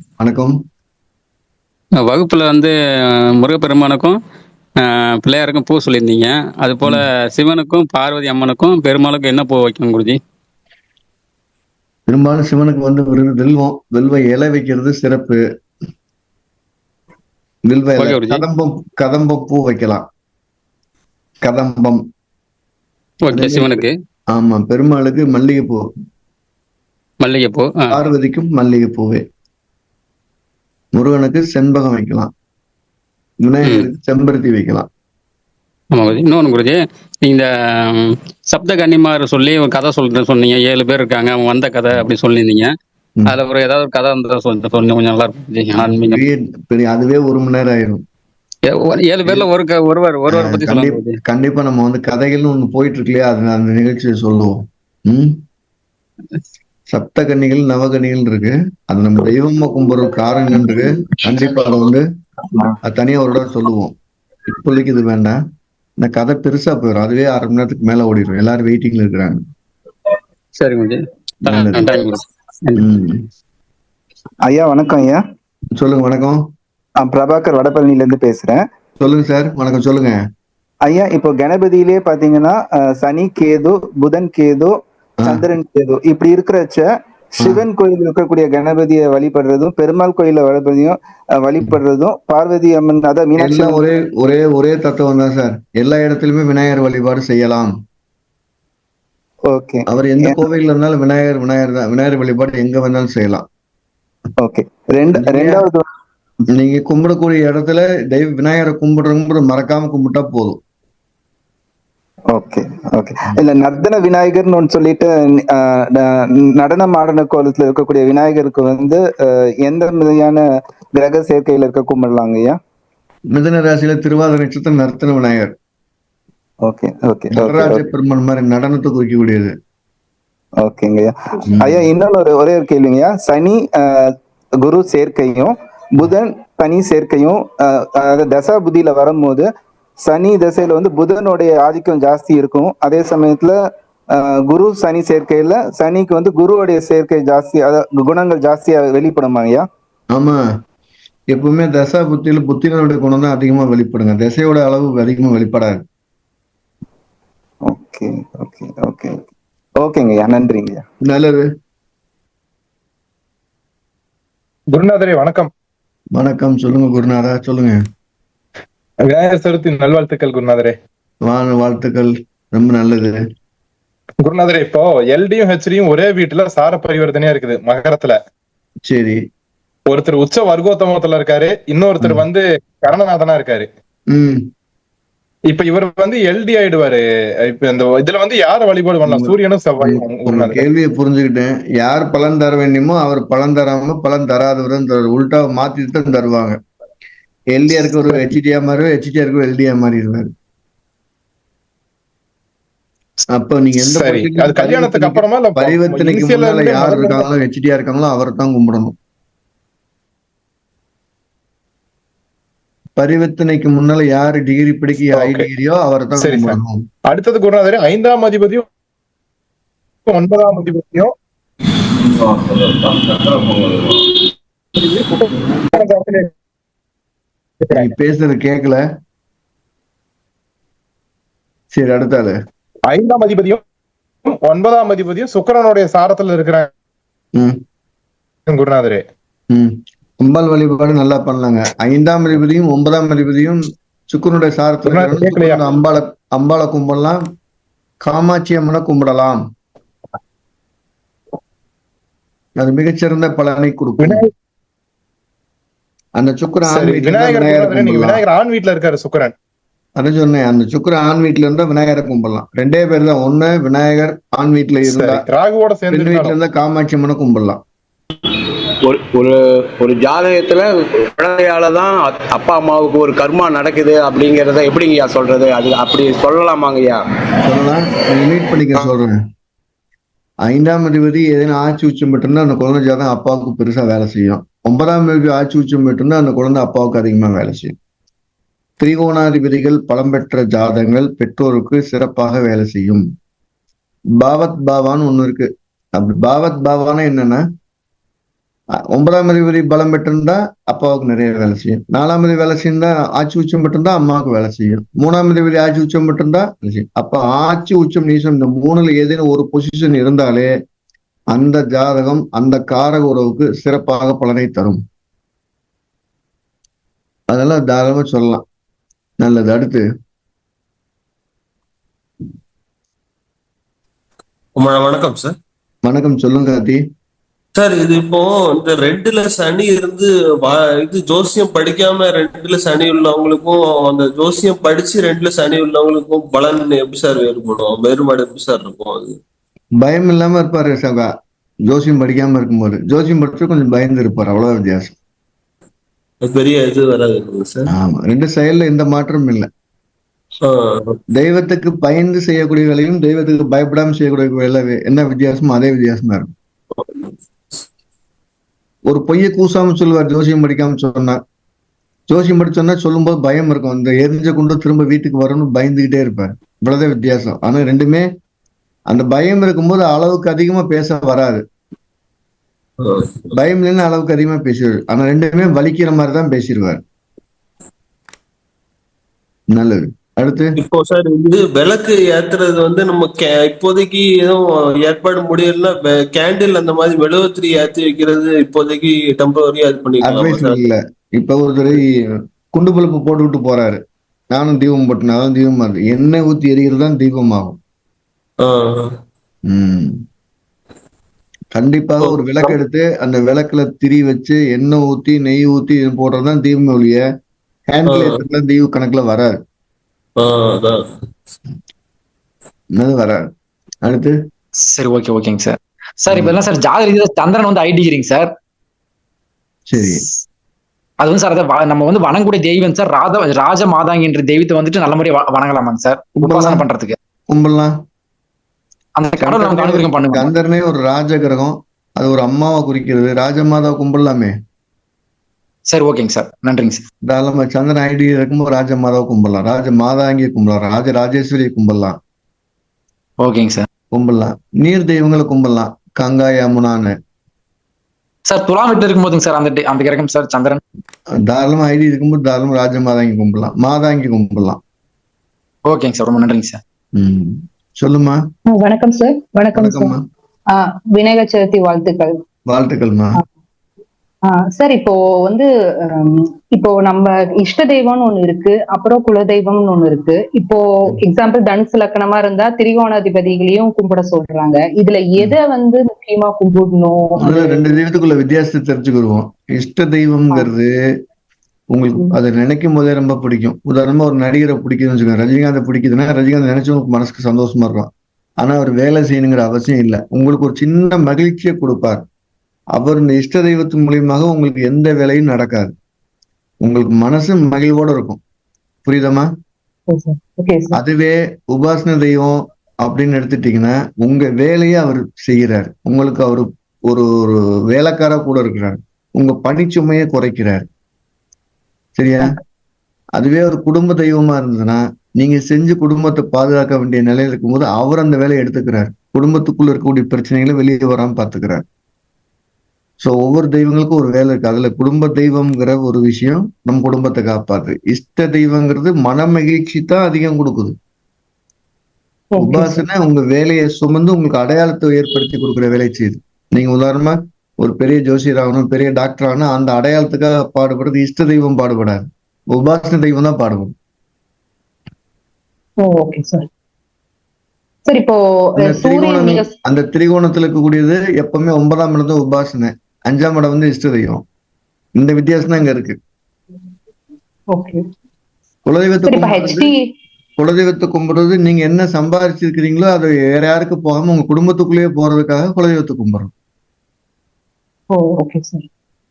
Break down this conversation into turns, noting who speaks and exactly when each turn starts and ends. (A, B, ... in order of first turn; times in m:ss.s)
0:00.2-0:00.6 A
0:02.0-0:02.7 B
0:03.4-0:04.1 B
0:04.8-0:10.2 B
0:12.1-0:15.4 A
0:17.7-0:20.0 A
0:18.0-0:18.4 B
0:21.4-0:22.0 A
0:23.2-0:23.9 B
0:23.3-0:25.9 A
0:27.2-0:28.0 B
0:27.9-0:29.2 A
0:31.0-0:32.3 A
0:33.4-0:34.9 A
0:35.9-0:37.5 B
0:38.0-0:42.7 B
0:43.3-0:46.2 B
0:45.8-0:48.0 A
0:48.7-0:51.2 B
0:50.3-0:55.3 A
0:56.9-1:02.0 A
1:02.8-1:03.9 A
1:04.5-1:05.4 A
1:06.0-1:09.4 A
1:10.6-1:12.8 B
1:11.4-1:11.9 A
1:12.8-1:13.2 A
1:14.4-1:15.2 C
1:15.8-1:16.4 A
1:17.0-1:18.6 C
1:19.0-1:20.2 A
1:20.8-1:33.8 C
1:33.4-1:37.7 A
1:39.5-1:40.4 C
1:39.9-1:43.4 A
1:44.4-1:45.8 C
1:45.2-1:45.6 A
1:46.6-1:50.6 A
1:52.3-1:59.0 C
1:59.6-2:00.4 C
2:00.9-2:02.6 C
2:03.3-2:05.5 A
2:06.6-2:07.8 C
2:07.3-2:09.5 A
2:10.6-2:14.1 C
2:11.5-2:11.8 A
2:14.6-2:19.5 C
2:20.0-2:23.5 C
2:24.2-2:29.7 C
2:30.1-2:30.4 A
2:31.3-2:35.8 A
2:37.6-2:39.2 C
2:39.8-2:40.8 C
2:41.0-2:41.5 A
2:44.7-2:45.5 D
2:46.1-2:47.8 A
2:49.0-2:50.8 D
2:51.2-2:53.2 A
2:54.2-2:58.2 D
2:58.8-2:59.2 A
2:59.9-3:03.7 D
3:04.1-3:04.4 A
3:05.5-3:10.7 D
3:09.0-3:16.6 A
3:17.5-3:20.3 A
3:23.3-3:28.9 A
3:23.8-3:27.3 D
3:33.0-3:36.8 A
3:35.1-3:35.5 D
3:36.2-3:38.7 D
3:40.1-3:41.1 D
3:42.0-3:44.0 E
3:44.8-3:46.3 D
3:47.6-3:47.9 D
3:47.7-3:48.8 A
3:51.7-3:52.4 A
3:52.9-3:53.6 D
3:54.2-3:56.7 D
3:58.5-3:59.0 D
3:59.5-4:07.2 A
4:04.9-4:05.6 D
4:08.0-4:09.4 A
4:12.6-4:14.2 A
4:14.0-4:14.3 D
4:16.2-4:18.2 A
4:16.6-4:19.3 D
4:20.0-4:25.3 A
4:24.9-4:26.4 D
4:25.9-4:27.6 A
4:28.9-4:37.0 E
4:37.4-4:39.2 A
4:40.4-4:47.8 A
4:48.8-4:53.1 A
4:54.2-4:57.4 A
4:58.9-5:10.5 A
5:11.3-5:14.8 A
5:17.3-5:18.4 A
5:19.2-5:19.8 A
5:24.6-5:25.4 F
5:25.8-5:26.8 A
5:27.6-5:39.2 F
5:39.8-5:41.1 A
5:41.7-5:45.0 A
5:46.2-5:47.7 F
5:47.7-5:49.5 A
5:50.4-5:51.0 F
5:51.2-5:56.3 A
5:58.9-6:01.2 A
6:02.1-6:08.1 A
6:08.9-6:11.4 A
6:12.8-6:13.3 F
6:13.3-6:16.8 A
6:19.5-6:20.5 A
6:20.6-6:30.6 F
6:30.0-6:32.0 A
6:32.5-6:33.8 A
6:34.3-6:37.6 A
6:38.4-6:38.9 F
6:39.5-6:40.0 A
6:41.6-6:47.0 A
6:42.0-6:42.5 F
6:47.7-6:49.4 A
6:47.9-6:48.2 F
6:50.2-6:50.8 F
6:52.8-6:53.2 A
6:53.8-6:54.1 A
6:54.6-6:58.4 G
6:56.1-6:56.4 A
6:59.7-7:00.1 A
7:01.0-7:07.0 G
7:06.2-7:06.7 A
7:07.3-7:07.7 A
7:09.0-7:10.3 G
7:09.2-7:14.3 A
7:15.7-7:16.9 G
7:17.1-7:22.0 A
7:23.2-7:23.7 G
7:23.9-7:26.9 A
7:28.2-7:30.6 G
7:31.2-7:34.6 A
7:35.6-7:36.6 G
7:36.9-7:38.2 A
7:38.5-7:39.9 H
7:39.6-7:40.0 A
7:40.5-7:42.1 H
7:42.5-7:43.2 A
7:44.2-7:57.8 H
7:57.2-8:00.7 A
8:01.7-8:07.9 A
8:08.4-8:12.0 A
8:12.7-8:15.7 A
8:16.6-8:18.2 A
8:18.9-8:19.3 A
8:19.9-8:20.8 H
8:20.7-8:30.6 A
8:32.0-8:32.4 A
8:33.2-8:41.6 A
8:43.0-8:50.8 A
8:52.3-8:52.8 H
8:52.4-9:03.7 A
9:05.8-9:06.5 H
9:07.8-9:09.5 H
9:08.6-9:14.2 A
9:15.0-9:16.0 A
9:17.5-9:17.8 H
9:18.7-9:19.7 A
9:19.0-9:19.8 H
9:20.4-9:26.3 A
9:27.9-9:28.6 H